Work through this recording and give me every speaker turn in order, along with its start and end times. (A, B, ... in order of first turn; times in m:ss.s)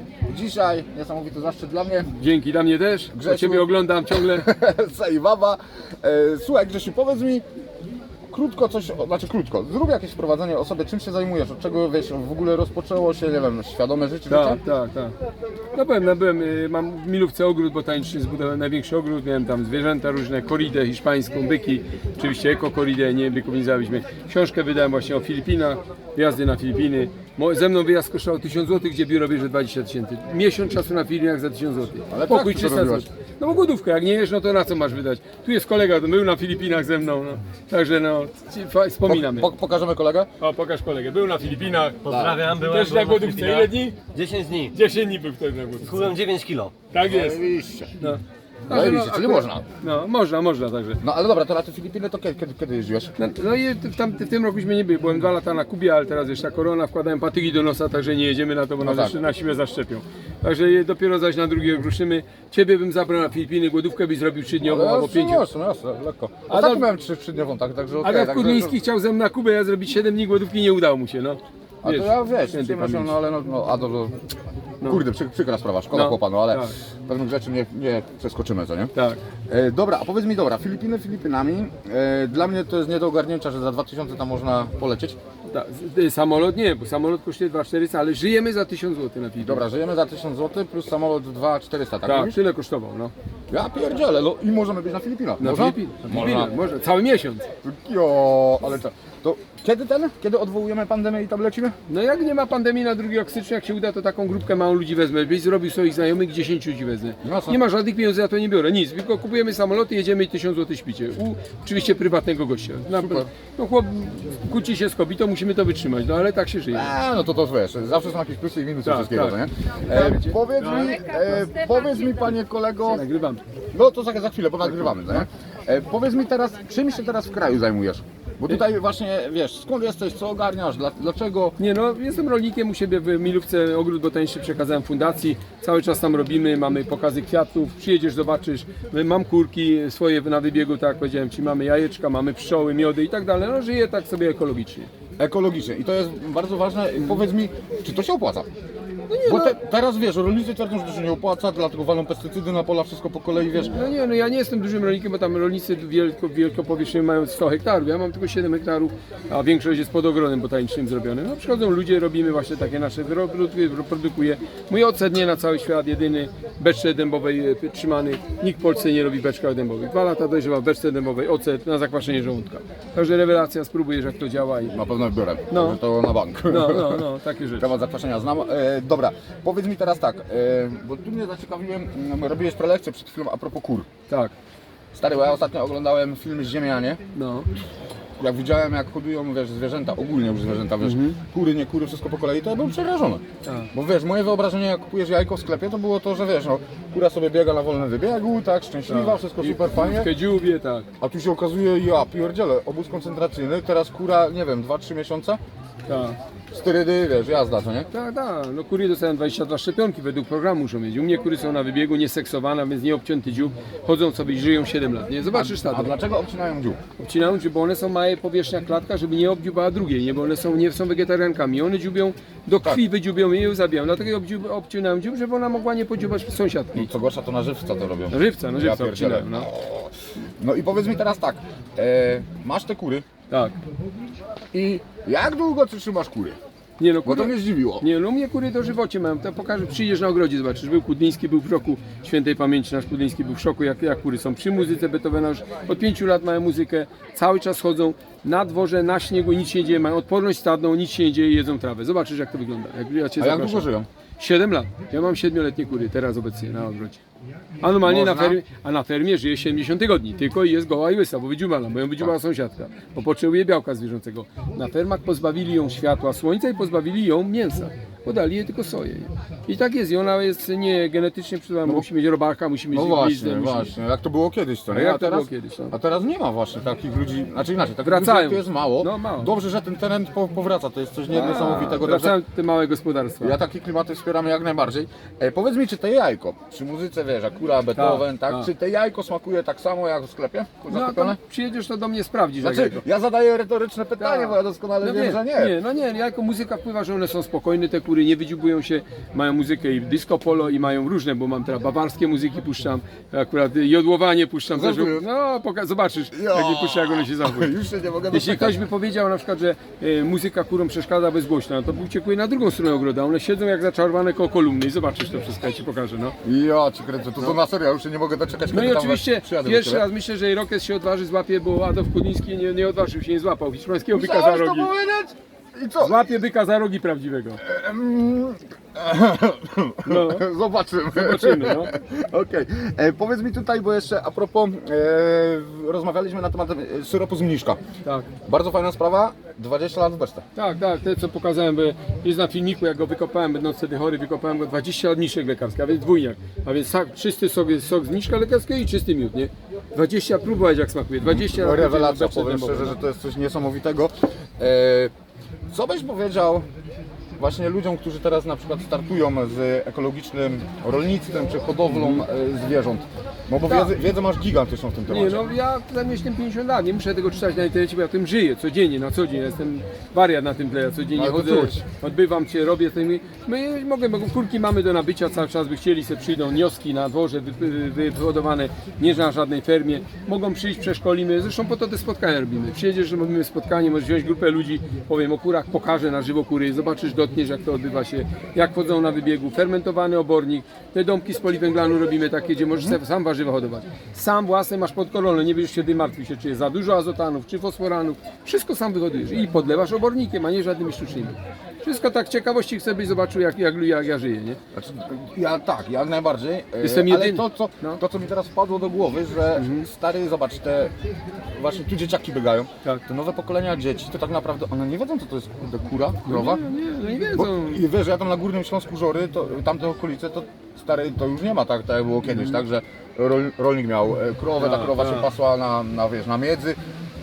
0:00.3-0:02.1 A
0:02.2-0:04.5 B
0:03.1-0:07.4 A
0:08.3-0:14.6 A
0:14.3-0:15.2 B
0:15.7-0:39.6 B
0:32.1-0:33.1 A
0:39.1-0:40.3 A
0:40.4-0:44.1 B
0:42.0-0:44.8 C
0:42.1-0:42.4 A
0:44.7-0:46.0 B
0:45.9-0:46.8 C
0:46.9-0:47.4 B
0:47.0-0:47.9 A
0:48.0-0:51.0 B
0:48.7-0:49.6 A
0:51.0-0:53.2 A
0:53.2-1:05.5 B
0:58.8-0:59.2 A
1:04.6-1:08.8 A
1:06.5-1:06.9 B
1:08.0-1:13.2 B
1:11.8-1:14.2 A
1:14.8-1:18.9 A
1:15.9-1:16.7 B
1:19.0-1:19.2 B
1:19.5-1:25.2 A
1:25.5-1:29.7 B
1:29.4-1:32.4 A
1:32.0-1:33.1 B
1:33.5-1:36.5 A
1:35.4-1:37.5 B
1:37.6-1:41.8 A
1:41.9-1:56.9 B
1:47.2-1:47.6 A
1:53.0-1:53.3 A
1:56.7-2:03.0 A
1:58.8-2:01.0 B
2:02.8-2:03.4 B
2:03.7-2:11.6 A
2:04.8-2:05.2 B
2:11.6-2:24.9 B
2:25.2-2:28.5 A
2:29.1-2:29.6 B
2:29.2-2:33.8 A
2:33.5-2:54.8 B
2:54.6-2:57.1 A
2:55.5-2:55.8 B
2:56.5-2:57.7 B
2:57.6-3:03.9 A
3:04.1-3:04.3 B
3:04.9-3:07.0 A
3:07.2-3:07.5 B
3:08.2-3:20.1 A
3:10.8-3:11.2 B
3:18.9-3:20.9 B
3:21.0-3:25.4 A
3:25.9-3:26.2 B
3:26.5-3:27.9 A
3:27.9-3:36.0 B
3:35.3-3:36.8 A
3:37.0-3:46.9 B
3:46.7-3:53.0 A
3:48.1-3:49.5 B
3:53.3-3:53.6 B
3:54.5-3:56.4 A
3:56.8-4:17.0 B
3:57.0-3:57.9 A
4:13.2-4:13.9 A
4:17.6-4:33.7 B
4:17.8-4:18.4 A
4:32.7-4:42.2 A
4:34.7-4:35.8 B
4:37.8-4:39.3 B
4:41.1-4:43.4 B
4:43.2-4:51.2 A
4:47.8-4:48.5 B
4:50.7-4:52.9 B
4:52.4-4:55.5 A
4:54.0-5:07.6 B
5:04.5-5:05.0 A
5:06.1-5:08.6 A
5:08.1-5:16.2 B
5:16.2-5:19.8 A
5:18.5-5:24.7 B
5:23.9-5:26.1 A
5:25.8-5:27.5 B
5:27.4-5:37.6 A
5:29.8-5:30.3 B
5:30.9-5:31.7 B
5:37.8-5:38.1 B
5:38.2-5:40.2 A
5:40.4-5:52.8 B
5:51.0-5:54.9 A
5:55.5-5:56.4 A
5:57.2-6:05.2 A
6:01.7-6:02.0 B
6:03.4-6:03.8 B
6:04.9-6:44.4 B
6:11.0-6:11.6 A
6:44.5-6:50.7 A
6:46.6-6:47.8 B
6:49.4-6:49.7 B
6:51.3-6:56.4 A
6:56.0-6:57.6 B
6:57.1-7:06.6 A
7:02.1-7:02.4 B
7:04.4-7:05.1 B